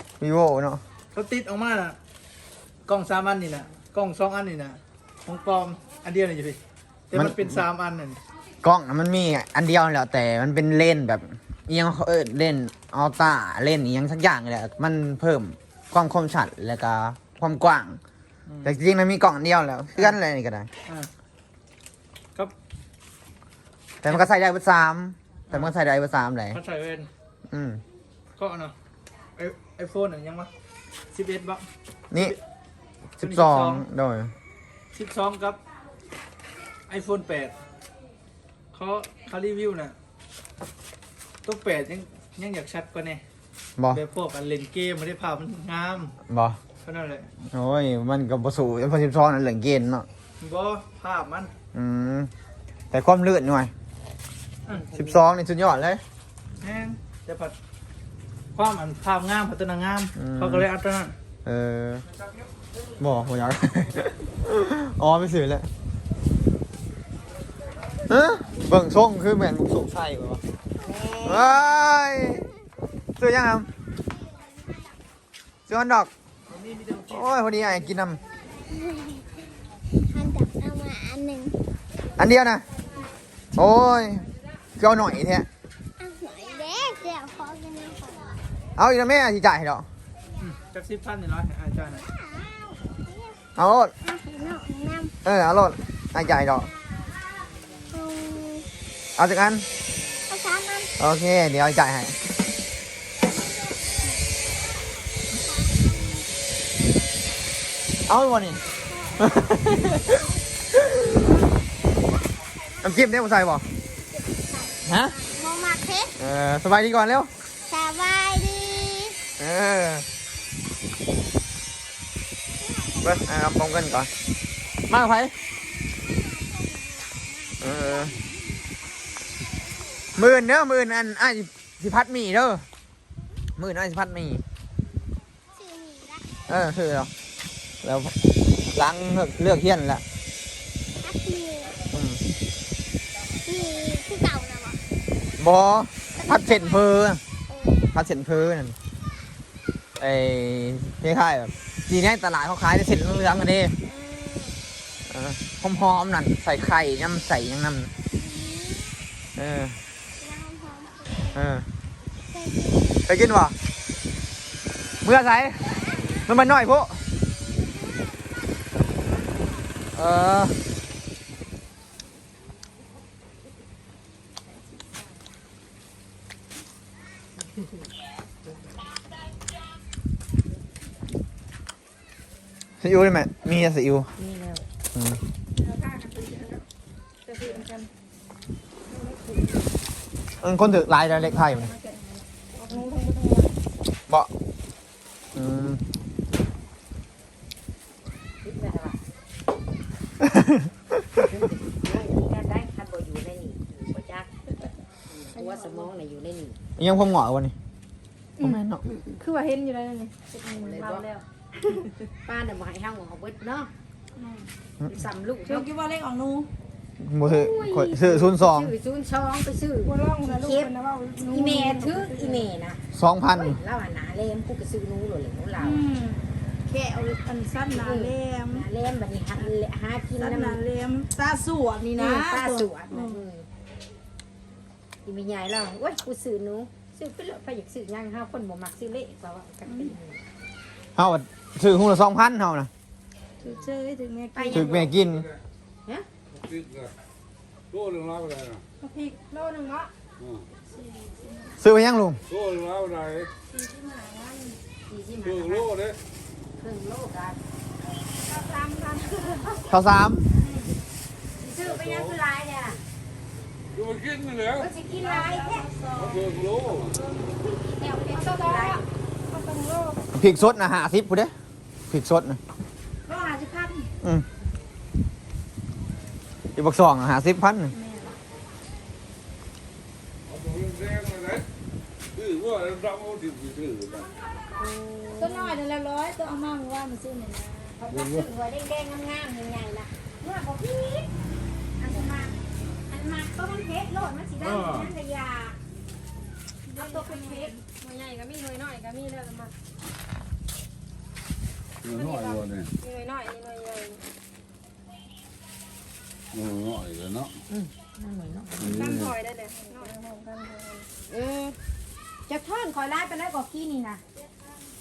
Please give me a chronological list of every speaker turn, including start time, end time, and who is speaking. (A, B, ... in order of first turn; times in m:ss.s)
0:00.2-0:00.8 A
0:01.1-0:02.0 B
0:02.9-0:06.6 B
0:07.1-0:08.2 B
0:07.1-0:07.6 A
0:08.6-0:18.0 A
0:18.5-0:18.7 B
0:18.6-0:20.7 A
0:24.0-0:26.6 A
0:26.5-0:27.1 B
0:27.5-0:27.8 A
0:28.4-0:28.7 B
0:29.4-0:30.5 B
0:31.1-0:32.3 B
0:33.2-0:34.3 A
0:33.2-0:33.8 B
0:34.9-0:35.6 B
0:36.9-0:37.5 B
0:38.7-0:39.9 B
0:41.4-0:43.2 B
0:43.9-0:46.1 B
0:46.3-0:46.6 A
0:46.8-0:47.3 B
0:47.5-0:50.1 A
0:50.4-0:51.5 B
0:51.7-0:52.3 A
0:52.9-0:53.7 A
0:54.7-0:55.1 C
0:54.9-0:56.0 A
0:56.6-0:57.5 B
0:58.5-1:01.1 B
1:00.2-1:00.6 A
1:01.4-1:02.0 A
1:03.0-1:05.7 A
1:08.1-1:10.4 A
1:10.8-1:11.5 C
1:11.2-1:12.5 A
1:13.2-1:13.7 A
1:15.7-1:16.1 A
1:17.0-1:18.2 A
1:18.7-1:19.2 D
1:20.1-1:21.6 D
1:22.2-1:22.6 A
1:23.5-1:24.2 A
1:24.8-1:25.5 A
1:26.0-1:28.4 D
1:28.8-1:29.8 A
1:30.4-1:32.0 B
1:32.1-1:33.4 D
1:33.6-1:33.9 A
1:34.0-1:35.1 D
1:35.2-1:36.7 A
1:37.9-1:38.7 D
1:39.2-1:39.6 A
1:40.3-1:40.9 D
1:41.0-1:42.2 A
1:45.4-1:46.2 D
1:48.0-1:51.2 A
1:48.8-1:50.2 D
1:52.8-1:53.7 A
1:54.1-1:56.1 D
1:54.8-1:55.2 A
1:56.2-1:57.3 A
1:57.6-1:59.2 D
1:59.4-2:00.0 A
2:02.7-2:03.1 D
2:03.0-2:04.1 A
2:04.9-2:05.3 A
2:06.0-2:08.1 D
2:07.6-2:08.2 A
2:10.2-2:12.6 A
2:13.6-2:14.4 A
2:15.6-2:16.3 D
2:16.4-2:17.1 A
2:17.8-2:18.2 A
2:18.7-2:20.0 A
2:21.0-2:21.8 D
2:21.9-2:22.2 A
2:23.4-2:24.8 D
2:25.4-2:27.2 A
2:26.2-2:26.8 D
2:27.5-2:27.9 D
2:27.9-2:28.8 A
2:30.0-2:33.8 A
2:33.8-2:34.6 D
2:35.1-2:37.9 A
2:38.1-2:39.0 D
2:39.4-2:39.8 A
2:40.2-2:41.4 D
2:41.3-2:41.7 A
2:42.3-2:43.0 D
2:43.1-2:43.5 A
2:45.0-2:47.0 A
2:47.8-2:48.2 D
2:49.9-2:50.6 A
3:02.8-3:04.1 A
3:04.2-3:04.6 C
3:04.9-3:05.2 A
3:05.6-3:06.6 E
3:07.2-3:07.9 E
3:09.0-3:09.3 C
3:10.4-3:11.7 A
3:11.6-3:12.1 E
3:12.6-3:13.5 E
3:15.3-3:15.8 A
3:18.4-3:19.0 C
3:20.2-3:20.7 A
3:21.2-3:24.3 C
3:25.2-3:26.6 C
3:25.4-3:25.7 E
3:26.8-3:27.5 A
3:28.4-3:28.8 A
3:29.2-3:31.2 E
3:30.3-3:31.1 C
3:32.2-3:33.7 C
3:34.8-3:35.7 C
3:35.4-3:36.5 E
3:36.0-3:36.4 B
3:37.0-3:38.7 A
3:37.2-3:45.8 C
3:39.8-3:42.3 E
3:42.9-3:43.6 A
3:45.6-3:48.6 E
3:47.7-3:50.6 C
3:50.2-3:52.4 E
3:50.7-3:51.9 B
3:51.9-3:53.5 C
3:55.0-4:00.2 C
4:01.0-4:02.7 A
4:03.4-4:03.7 C
4:03.4-4:04.7 E
4:04.3-4:04.8 C
4:04.5-4:05.3 A
4:07.8-4:08.5 F
4:08.8-4:09.9 E
4:11.6-4:12.2 A
4:12.5-4:13.2 F
4:13.5-4:14.6 E
4:14.9-4:15.8 C
4:16.6-4:17.4 C
4:18.2-4:19.6 E
4:19.7-4:20.3 A
4:21.4-4:22.8 C
4:23.9-4:24.2 F
4:24.5-4:25.7 C
4:25.2-4:26.3 E
4:27.4-4:28.8 C
4:27.9-4:30.0 E
4:30.1-4:31.3 A
4:31.9-4:32.4 A
4:33.1-4:33.8 E
4:36.6-4:37.7 A
4:37.8-4:38.1 E
4:40.8-4:41.2 F
4:42.3-4:44.0 F
4:44.6-4:45.6 C
4:45.2-4:47.8 E
4:47.8-4:51.1 C
4:51.8-4:52.3 C
4:52.9-4:55.6 C
4:56.7-4:57.6 C
4:56.8-4:59.5 E
5:01.8-5:04.0 E
5:06.7-5:07.1 F
5:07.5-5:08.9 C
5:08.7-5:10.9 E
5:11.1-5:11.6 C
5:12.3-5:14.0 C